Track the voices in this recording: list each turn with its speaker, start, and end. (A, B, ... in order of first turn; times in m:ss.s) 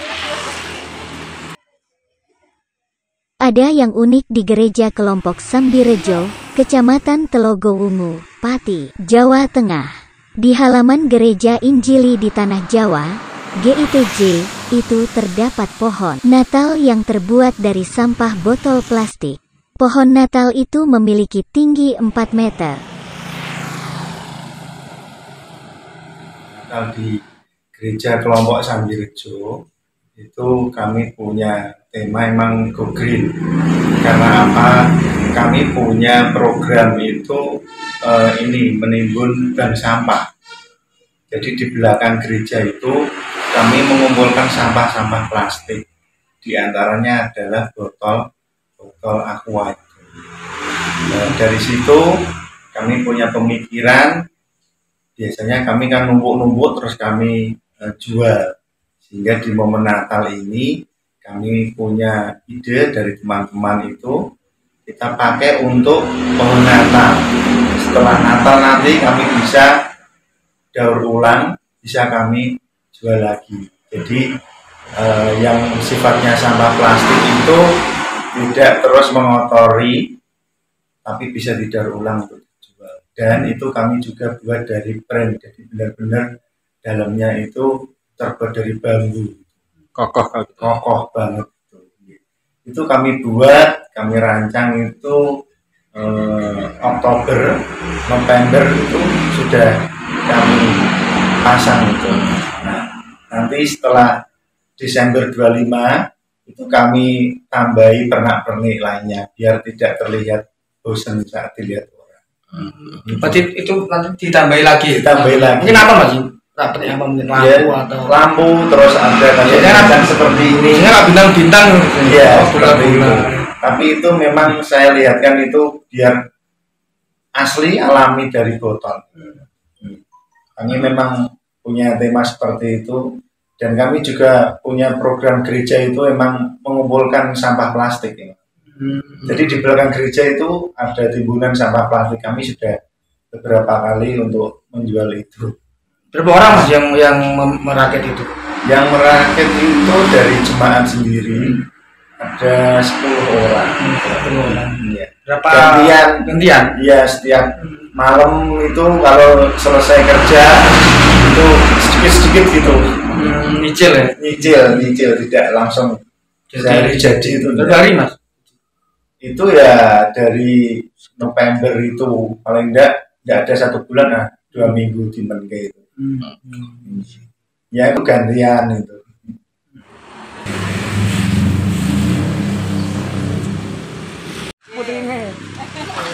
0:03.5-0:09.9 A
0:10.4-0:22.8 A
0:26.5-0:27.2 B
0:27.8-0:29.6 B
0:30.2-0:33.4 B
0:34.0-0:40.3 B
0:41.3-0:43.0 B
0:43.5-0:45.8 B
0:46.4-0:48.2 B
0:48.8-0:50.1 B
0:51.0-0:54.2 B
0:55.2-0:58.5 B
0:59.0-1:00.7 B
1:01.2-1:04.2 B
1:04.9-1:09.7 B
1:10.7-1:14.3 B
1:15.0-1:20.2 B
1:21.0-1:26.3 B
1:26.8-1:35.2 B
1:36.0-1:40.9 B
1:41.4-1:44.2 B
1:44.8-1:52.2 B
1:52.5-1:58.1 C
1:53.1-1:53.4 B
1:54.9-1:55.9 B
1:57.3-2:00.9 B
1:59.4-2:03.5 C
2:02.0-2:06.2 B
2:07.4-2:10.0 B
2:10.6-2:13.1 B
2:13.6-2:18.4 B
2:18.7-2:19.5 C
2:19.3-2:22.8 B
2:23.3-2:25.6 B
2:26.1-2:28.3 C
2:28.6-2:31.6 B
2:32.2-2:33.8 B
2:33.7-2:36.8 C
2:34.3-2:43.0 B
2:37.6-2:37.9 C
2:43.1-2:44.8 C
2:44.2-2:46.0 B
2:46.5-2:48.2 C
2:46.6-2:47.8 B
2:49.2-2:55.8 B
2:56.0-2:57.0 C
2:56.8-2:57.2 B
2:57.7-2:59.4 B
3:04.8-3:05.3 C